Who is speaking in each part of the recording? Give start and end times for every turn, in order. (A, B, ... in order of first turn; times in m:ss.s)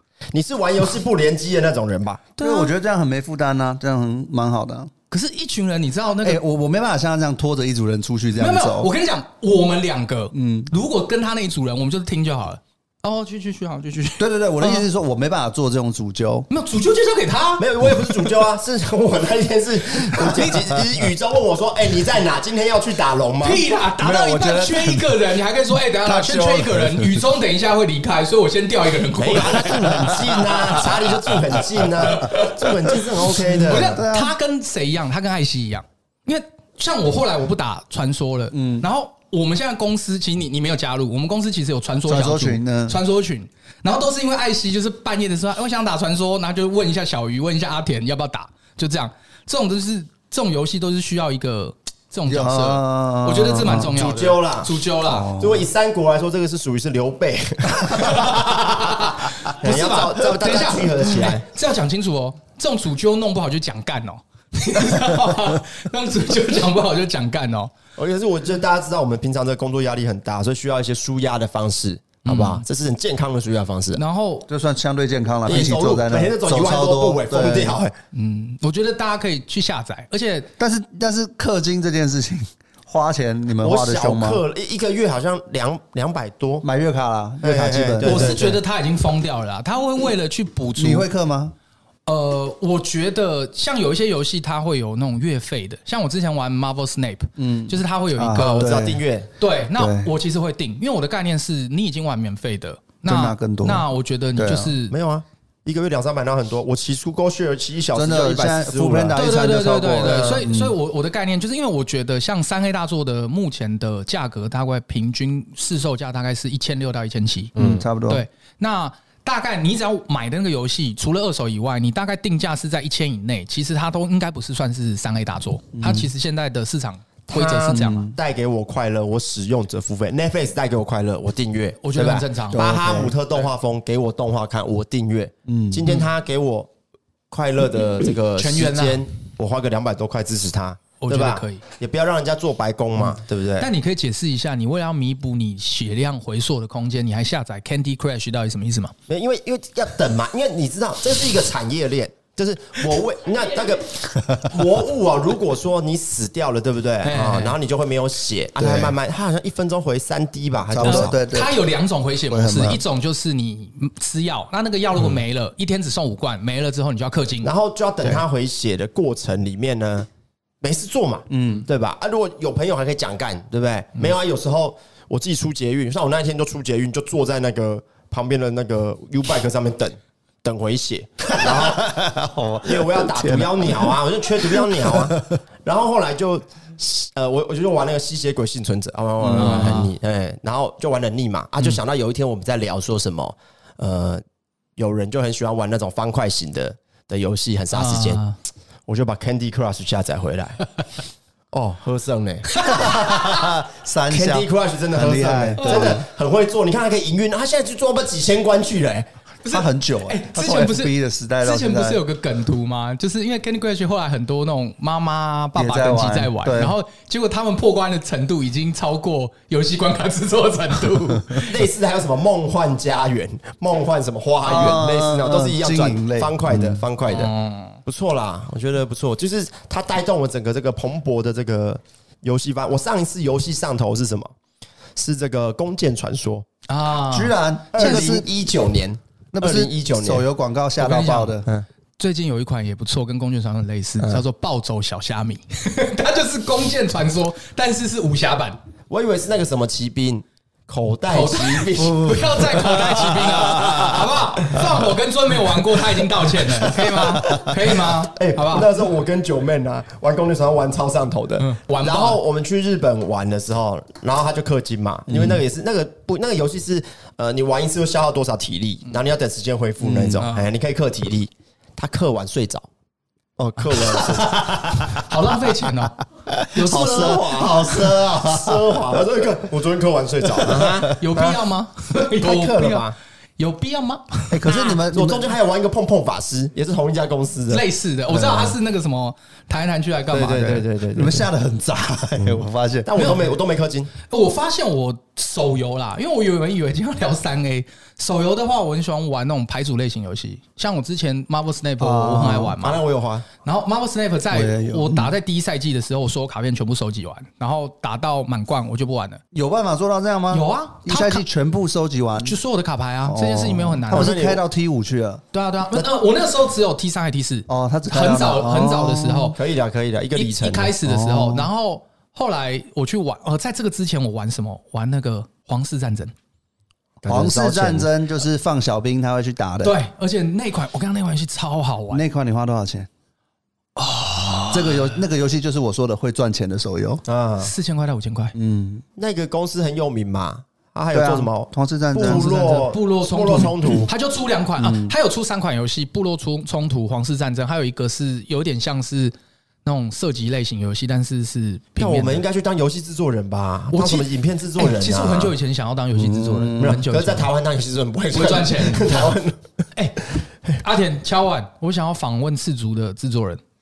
0:00.3-0:02.3 A
0:02.4-0:02.7 B
0:02.4-0:04.9 C
0:05.1-0:06.4 B
0:06.2-0:08.9 C
0:08.4-0:14.9 B
0:10.3-0:10.7 C
0:14.2-0:16.5 C
0:16.5-0:17.6 B
0:17.6-0:23.6 A
0:20.2-0:20.5 B
0:20.4-0:20.8 C
0:23.4-0:30.8 B
0:24.0-0:25.2 C
0:25.9-0:27.2 C
0:29.1-0:33.9 A
0:29.7-0:30.6 C
0:32.0-0:32.7 B
0:33.3-0:34.3 C
0:33.4-0:55.3 B
0:38.5-0:38.9 C
0:42.1-0:43.0 C
0:52.2-0:54.2 C
0:53.7-0:54.7 A
0:55.0-0:55.7 C
0:55.4-0:58.9 A
0:57.9-1:07.7 B
0:59.5-1:01.4 A
1:08.0-1:14.0 A
1:12.2-1:12.6 B
1:13.9-1:14.5 B
1:14.5-1:17.8 C
1:15.4-1:17.9 A
1:18.1-1:20.5 B
1:20.6-1:24.4 C
1:23.6-1:26.6 A
1:26.6-1:28.5 C
1:27.4-1:28.5 A
1:28.0-1:31.1 B
1:30.8-1:31.6 C
1:32.1-1:38.7 B
1:37.4-1:39.0 C
1:38.4-1:39.3 A
1:39.4-1:44.9 B
1:39.8-1:40.1 C
1:43.0-1:44.8 C
1:44.9-1:49.2 A
1:47.9-1:50.7 C
1:49.2-2:08.1 B
1:50.0-1:50.4 A
1:57.6-1:57.9 A
1:57.6-1:58.2 C
2:05.7-2:06.1 C
2:07.3-2:16.7 A
2:07.7-2:08.1 C
2:11.8-2:12.6 B
2:12.5-2:13.2 C
2:15.4-2:15.9 C
2:17.3-2:23.7 A
2:18.4-2:19.0 B
2:21.0-2:21.6 B
2:23.6-2:28.9 B
2:29.1-2:41.1 A
2:37.0-2:37.6 B
2:38.6-2:39.0 C
2:40.7-2:41.6 C
2:40.8-2:47.5 B
2:42.3-2:42.8 C
2:47.4-2:50.1 A
2:50.6-3:01.9 A
2:51.3-2:51.6 C
3:01.3-3:05.4 C
3:02.6-3:14.2 A
3:09.2-3:09.8 C
3:09.3-3:09.9 B
3:14.8-3:18.2 A
3:17.7-3:18.4 B
3:18.9-3:20.6 A
3:21.5-3:23.0 A
3:22.5-3:23.5 B
3:22.6-3:26.0 C
3:24.1-3:29.1 A
3:25.6-3:26.0 B
3:29.4-3:41.6 B
3:29.5-3:32.0 C
3:35.6-3:36.7 C
3:41.4-3:47.3 A
3:44.4-3:46.8 C
3:47.1-3:47.8 B
3:47.9-3:54.3 A
3:55.0-3:56.4 A
3:56.7-3:58.1 B
3:57.1-3:58.3 C
3:57.7-4:00.2 A
3:59.3-4:01.5 C
4:00.8-4:01.4 B
4:02.0-4:08.6 B
4:08.9-4:13.8 A
4:11.1-4:18.7 B
4:12.0-4:12.3 C
4:13.1-4:13.8 C
4:16.6-4:17.4 C
4:17.4-4:32.7 A
4:21.4-4:22.2 B
4:25.1-4:25.4 C
4:29.8-4:30.2 C
4:30.1-4:30.4 B
4:33.4-4:34.4 A
4:33.7-4:35.0 C
4:34.9-4:36.0 B
4:36.2-4:39.0 C
4:36.5-4:37.5 B
4:36.6-4:41.4 A
4:40.4-4:40.8 C
4:41.0-4:44.6 B
4:42.2-4:42.9 A
4:44.3-4:45.3 C
4:44.9-4:48.6 A
4:47.5-4:50.6 B
4:50.1-4:51.3 A
4:50.9-4:52.9 C
4:52.2-4:53.9 A
4:53.0-4:53.3 B
4:54.0-5:02.8 B
5:01.8-5:02.6 C
5:02.6-5:03.2 A
5:03.4-5:09.2 B
5:04.3-5:05.1 C
5:09.3-5:12.4 C
5:10.3-5:11.2 B
5:12.2-5:14.2 B
5:13.0-5:15.9 C
5:13.9-5:14.4 A
5:15.3-5:19.4 B
5:17.5-5:19.4 C
5:19.4-5:20.7 A
5:20.1-5:26.1 B
5:20.8-5:21.5 C
5:27.0-5:27.9 A
5:27.0-5:29.8 C
5:29.6-5:32.0 B
5:31.9-5:32.9 C
5:33.8-5:35.0 B
5:34.5-5:37.0 C
5:37.1-5:37.5 A
5:37.4-5:38.4 B
5:38.4-5:38.8 C
5:39.0-5:43.9 A
5:40.9-5:42.6 C
5:42.0-5:49.1 B
5:44.6-5:44.9 C
5:49.6-5:52.2 B
5:51.8-5:55.3 A
5:53.7-5:57.3 B
5:55.9-5:56.8 C
5:56.6-5:59.4 A
5:58.1-5:59.2 B
5:59.7-6:03.4 B